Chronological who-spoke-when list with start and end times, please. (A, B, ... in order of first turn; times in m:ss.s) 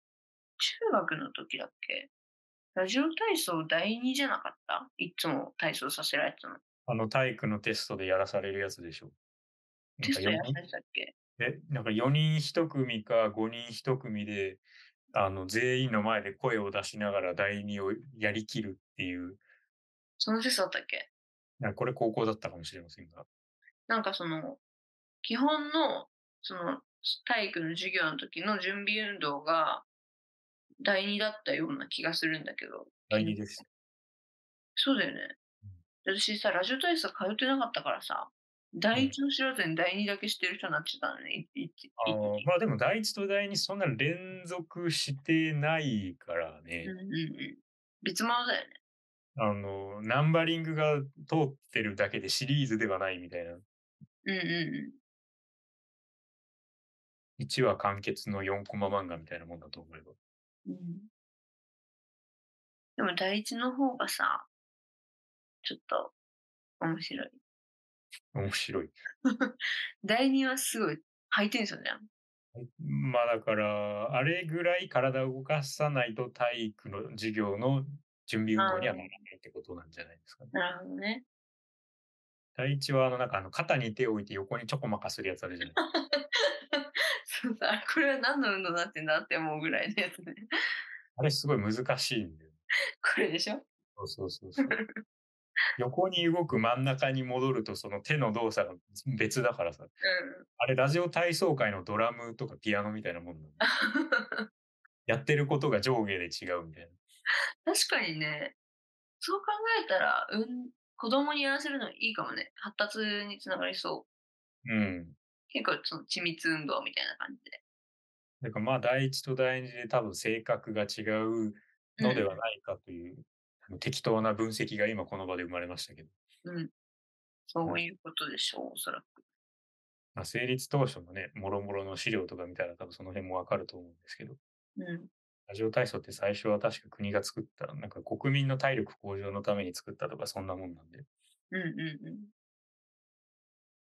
0:00.6-0:02.1 A
0:02.7-0:06.6 A
0:06.9-0:09.1 B
0:10.0-0:10.6 B
0:10.0-0:11.1 A
0:11.4-0:19.4 B
0:20.2-0:21.1 A
0:21.6-0:23.3 B
0:23.9-0:24.6 A
0:25.2-0:29.8 A
0:30.8-0:33.4 A
0:33.1-0:33.6 B
0:34.8-0:35.4 A
0:36.0-0:42.4 A
0:42.0-0:46.9 B
0:46.8-0:48.8 A
0:49.3-0:53.6 B
0:54.2-0:55.0 A
0:57.4-1:00.1 B
1:00.6-1:01.1 A
1:03.0-1:04.4 A
1:05.6-1:06.1 A
1:06.8-1:07.4 A
1:08.3-1:08.9 B
1:09.3-1:12.0 A
1:12.5-1:20.5 B
1:18.6-1:19.1 A
1:20.5-1:21.2 A
1:22.6-1:25.8 B
1:25.8-1:30.5 A
1:31.2-1:32.5 B
1:33.0-1:33.6 A
1:34.0-1:34.8 B
1:34.6-1:35.0 A
1:35.8-1:39.9 B
1:40.0-1:40.4 A
1:40.6-1:43.6 B
1:43.6-1:44.5 A
1:45.0-1:47.0 B
1:47.6-1:48.5 A
1:49.2-1:54.1 A
1:54.6-1:55.2 B
1:55.5-1:57.6 A
1:58.4-2:06.1 B
2:02.0-2:02.3 A
2:06.4-2:06.7 A
2:07.5-2:09.2 A
2:10.1-2:14.4 B
2:14.8-2:15.1 A
2:15.5-2:21.0 B
2:21.5-2:22.3 A